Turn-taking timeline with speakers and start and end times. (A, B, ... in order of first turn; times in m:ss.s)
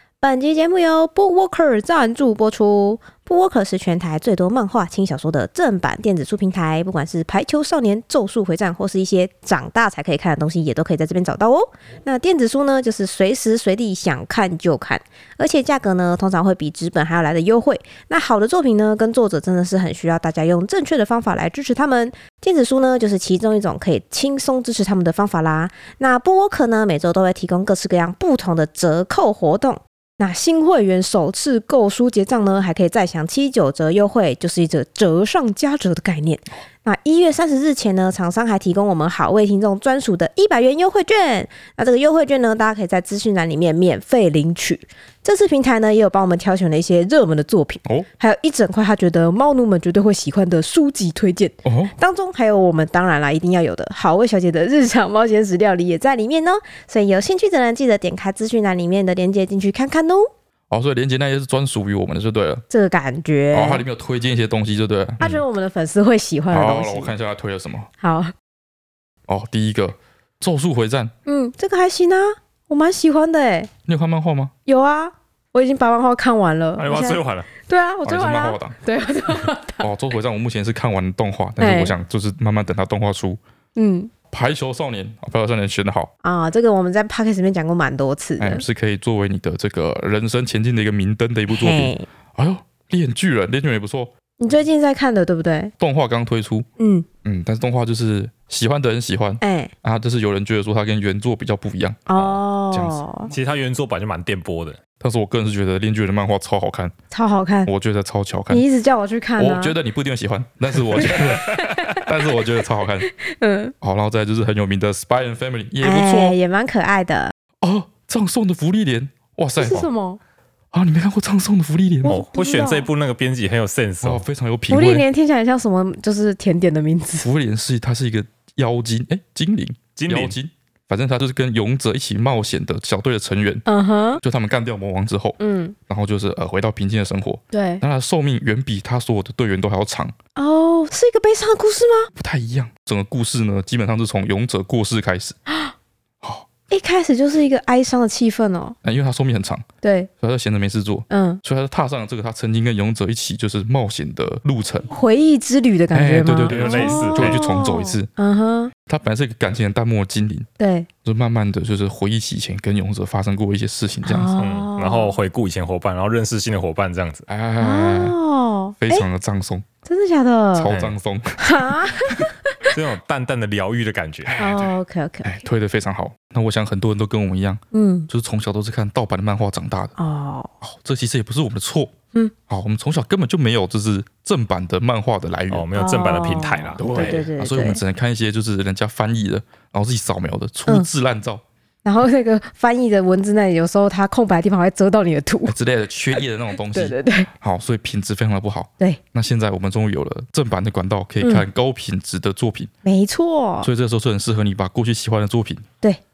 0:00.2-1:00.3 A
0:51.6-0:51.9 B
1:00.7-1:02.6 B
1:02.7-1:03.8 A
1:03.5-1:05.4 B
1:05.2-1:07.1 A
1:06.5-1:07.9 B
1:08.0-1:08.3 A
1:09.3-1:11.1 B
1:11.3-1:13.7 A
1:13.9-1:14.5 B
1:14.7-1:19.9 A
1:16.8-1:17.5 C
1:18.0-1:18.8 B
1:19.8-1:23.4 B
1:21.6-1:22.0 A
1:23.8-1:24.1 A
1:24.3-1:26.1 B
1:26.2-1:28.6 A
1:28.4-1:34.1 B
1:31.5-1:32.1 A
1:34.4-1:35.7 A
1:35.8-1:36.7 B
1:36.8-1:37.1 A
1:37.2-1:42.1 B
1:39.4-1:39.7 A
1:42.1-1:43.3 A
1:42.7-1:43.0 B
1:43.3-1:44.8 C
1:45.0-1:46.9 B
1:47.1-1:47.7 A
1:47.7-1:48.6 B
1:48.5-1:49.8 A
1:49.4-1:53.1 B
1:51.0-1:52.0 A
1:53.3-1:53.7 A
1:53.8-1:56.4 B
1:55.8-1:57.3 A
1:57.6-1:59.8 B
1:59.6-2:00.2 A
2:00.7-2:02.2 B
2:02.0-2:02.9 A
2:02.1-2:04.2 C
2:04.0-2:05.0 B
2:04.7-2:07.3 A
2:07.2-2:13.6 B
2:10.0-2:10.4 C
2:13.7-2:14.2 A
2:14.2-2:20.1 B
2:15.4-2:15.8 A
2:17.5-2:17.8 A
2:20.4-2:22.1 A
2:22.1-2:25.4 B
2:25.5-2:25.7 A
2:26.2-2:26.5 B
2:26.7-2:28.8 A
2:28.8-2:29.6 B
2:29.8-2:30.1 A
2:30.2-2:34.9 B
2:31.1-2:31.4 A
2:34.9-2:38.7 A
2:35.9-2:38.1 B
2:36.5-2:37.4 C
2:38.8-2:40.5 B
2:40.6-2:40.9 A
2:41.0-2:44.3 B
2:44.0-2:45.2 A
2:44.4-2:47.3 C
2:47.3-2:48.1 B
2:47.6-2:49.0 A
2:48.8-2:49.7 B
2:49.8-2:50.7 A
2:50.5-2:52.3 B
2:50.7-2:50.9 C
2:51.4-2:52.6 A
2:52.7-2:54.3 C
2:54.2-2:54.7 B
2:54.4-2:55.4 A
2:55.2-2:59.9 B
2:57.7-2:58.1 A
3:00.0-3:00.5 A
3:00.6-3:01.9 B
3:02.5-3:05.7 B
3:05.5-3:07.2 C
3:05.8-3:07.8 A
3:06.8-3:11.4 B
3:11.8-3:15.6 A
3:15.4-3:22.7 B
3:16.7-3:17.3 A
3:22.8-3:23.7 A
3:23.6-3:25.7 B